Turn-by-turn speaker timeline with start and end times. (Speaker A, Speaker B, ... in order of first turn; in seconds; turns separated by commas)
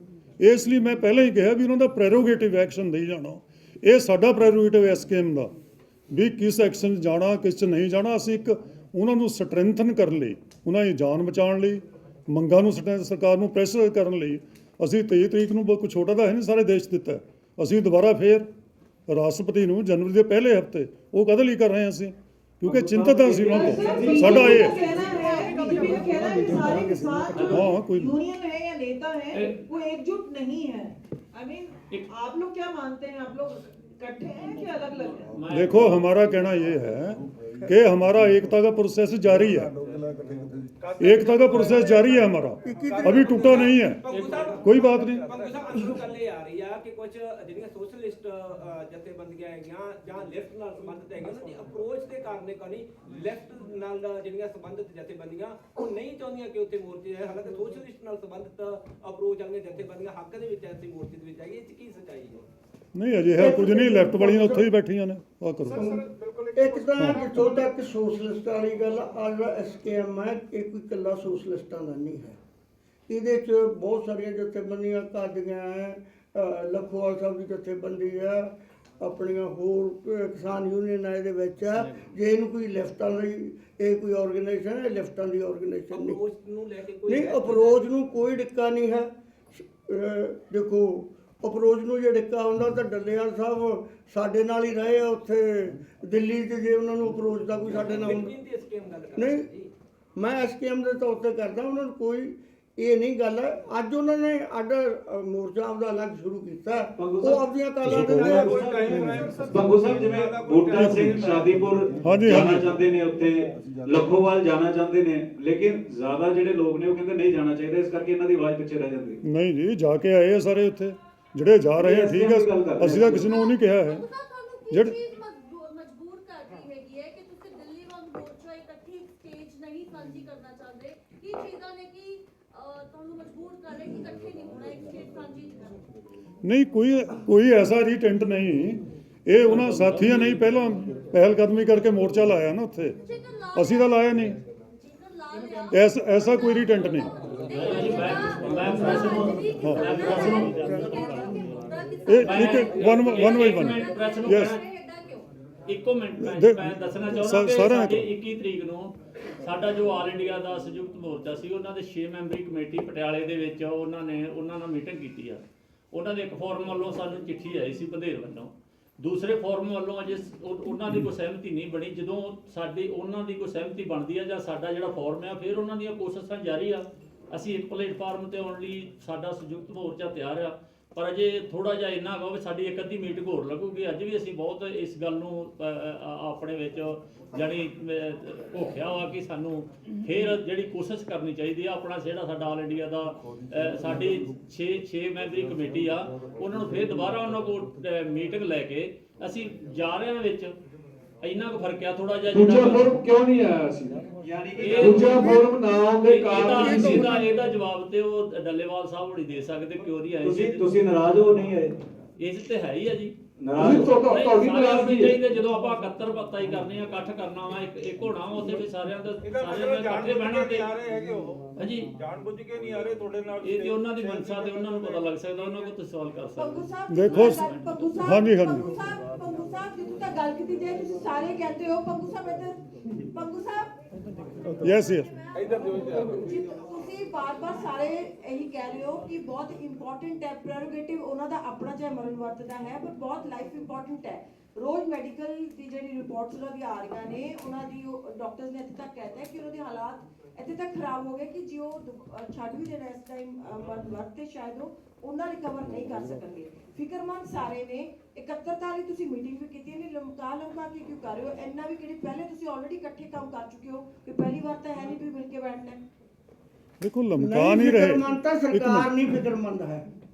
Speaker A: 0.4-5.5, Speaker A: 6.1-18.5, Speaker A: 19.1-24.9, Speaker B: 22.6-25.3, Speaker C: 23.5-35.3, Speaker A: 27.5-28.2, Speaker D: 35.4-36.0, Speaker A: 35.5-39.7, Speaker E: 40.8-44.6, Speaker A: 41.0-44.1, Speaker F: 42.6-43.8, Speaker G: 42.9-62.5, Speaker D: 44.1-44.4, Speaker A: 44.6-45.2, Speaker E: 45.2-45.5, Speaker A: 63.0-66.0, Speaker F: 63.4-64.7, Speaker F: 65.8-72.4, Speaker E: 66.1-67.5, Speaker A: 67.0-67.2, Speaker F: 73.1-86.2, Speaker G: 85.9-87.9, Speaker F: 87.1-98.3, Speaker G: 97.8-99.7, Speaker F: 99.2-99.5, Speaker F: 100.2-109.0, Speaker B: 107.0-107.4, Speaker A: 107.8-108.5, Speaker E: 107.9-111.6, Speaker B: 108.2-119.2, Speaker A: 110.8-111.3, Speaker A: 112.0-112.7, Speaker A: 119.2-124.0, Speaker B: 121.8-123.3, Speaker H: 123.1-135.8, Speaker A: 124.7-125.0, Speaker A: 136.4-143.0, Speaker D: 139.5-140.4, Speaker H: 143.1-155.3, Speaker A: 143.5-144.4, Speaker A: 145.7-147.1, Speaker D: 147.4-151.6, Speaker B: 148.5-149.5, Speaker A: 149.6-150.5, Speaker A: 152.1-154.6, Speaker D: 152.2-154.6, Speaker D: 155.7-200.6, Speaker A: 156.2-158.1, Speaker D: 201.2-202.9, Speaker I: 202.3-204.1, Speaker B: 204.2-205.3, Speaker D: 204.6-205.4, Speaker I: 204.8-207.2, Speaker D: 206.1-210.7, Speaker F: 206.6-207.3, Speaker B: 210.2-211.8, Speaker D: 212.2-213.2, Speaker B: 213.4-214.0, Speaker I: 213.6-215.2, Speaker D: 213.7-220.7, Speaker E: 219.2-221.4, Speaker D: 221.6-221.9, Speaker E: 222.0-225.7, Speaker D: 223.4-227.8, Speaker C: 226.4-232.6, Speaker A: 226.9-227.5, Speaker A: 228.0-228.7, Speaker C: 233.1-233.7, Speaker A: 234.6-235.1, Speaker H: 235.1-236.2, Speaker E: 235.3-236.4, Speaker C: 235.4-265.8, Speaker A: 266.8-268.9, Speaker F: 267.2-269.9